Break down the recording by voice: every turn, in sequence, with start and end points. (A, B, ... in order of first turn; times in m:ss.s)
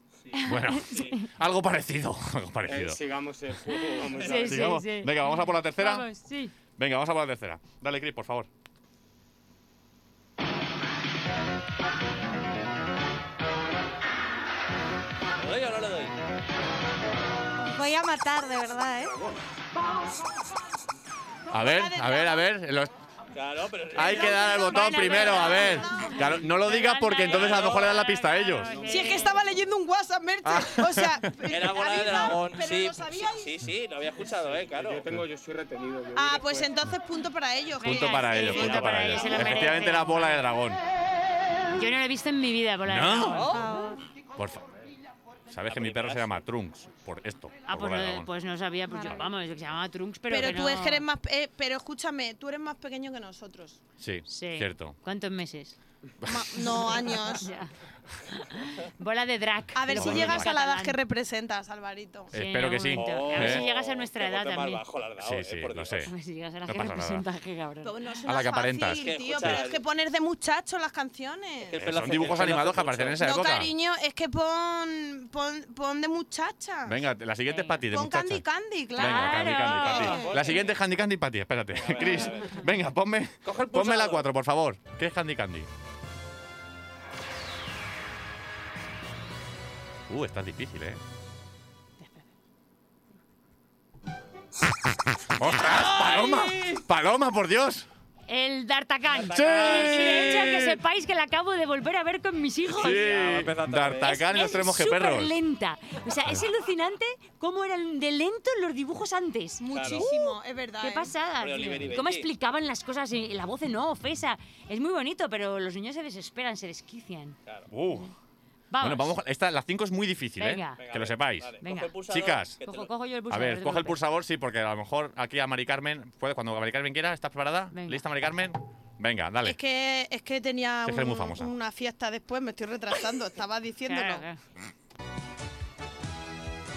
0:00.3-0:01.2 A
0:00.4-0:01.3 B
0:00.4-0:03.0 C
0:02.6-0:04.8 D
0:03.9-0:06.5 B
0:04.4-0:06.1 C
0:06.8-0:08.5 C
0:15.3-0:16.1 A
0:17.6-0:19.2 E
0:21.5-0:22.5 F
0:21.5-0:22.9 C
0:23.3-0:25.6 A
0:23.9-0:28.8 C
0:24.0-0:29.4 B
0:24.1-0:26.4 F
0:27.2-0:28.0 A
0:28.7-0:29.2 D
0:28.8-0:33.6 F
0:30.4-0:31.3 C
0:31.5-0:35.0 A
0:34.6-0:36.8 D
0:36.1-0:39.3 F
0:37.8-0:40.4 B
0:37.8-0:40.8 C
0:41.7-0:43.6 B
0:42.8-0:43.4 C
0:43.3-0:43.7 A
0:43.4-0:44.0 E
0:44.3-0:44.6 C
0:45.5-0:48.3 C
0:45.7-0:46.4 A
0:47.7-0:51.0 B
0:50.3-0:53.8 F
0:54.0-0:55.0 C
0:54.3-0:55.8 B
0:56.2-0:57.0 C
0:56.2-0:57.5 F
0:57.2-0:57.7 B
0:58.2-1:01.0 B
0:59.7-1:02.3 F
1:00.0-1:00.5 C
1:02.3-1:03.6 C
1:02.3-1:04.8 B
1:02.9-1:06.1 A
1:05.2-1:06.1 C
1:06.0-1:07.9 B
1:06.7-1:07.2 C
1:07.8-1:11.8 F
1:08.2-1:09.1 C
1:08.9-1:09.8 A
1:11.6-1:13.2 A
1:11.8-1:13.7 C
1:13.2-1:17.0 F
1:16.9-1:18.4 C
1:17.5-1:17.8 B
1:17.9-1:20.6 F
1:19.0-1:25.7 C
1:19.0-1:20.2 B
1:19.5-1:20.8 A
1:21.7-1:22.7 A
1:23.4-1:24.2 A
1:30.1-1:31.0 C
1:35.3-1:37.9 C
1:35.5-1:36.8 A
1:38.3-1:43.1 B
1:39.1-1:40.5 A
1:39.4-1:40.8 C
1:42.7-1:45.3 C
1:42.8-1:44.2 A
1:44.0-1:57.4 B
1:49.6-1:51.1 F
1:49.7-1:50.1 A
1:51.4-1:52.3 A
1:57.7-1:58.1 C
1:58.7-1:59.1 B
1:58.8-2:01.5 C
2:00.4-2:00.8 B
2:00.8-2:02.9 A
2:01.6-2:01.9 B
2:02.1-2:02.6 C
2:02.6-2:04.0 B
2:03.3-2:09.6 C
2:07.7-2:08.0 B
2:09.4-2:14.2 F
2:10.8-2:11.5 C
2:13.8-2:14.4 B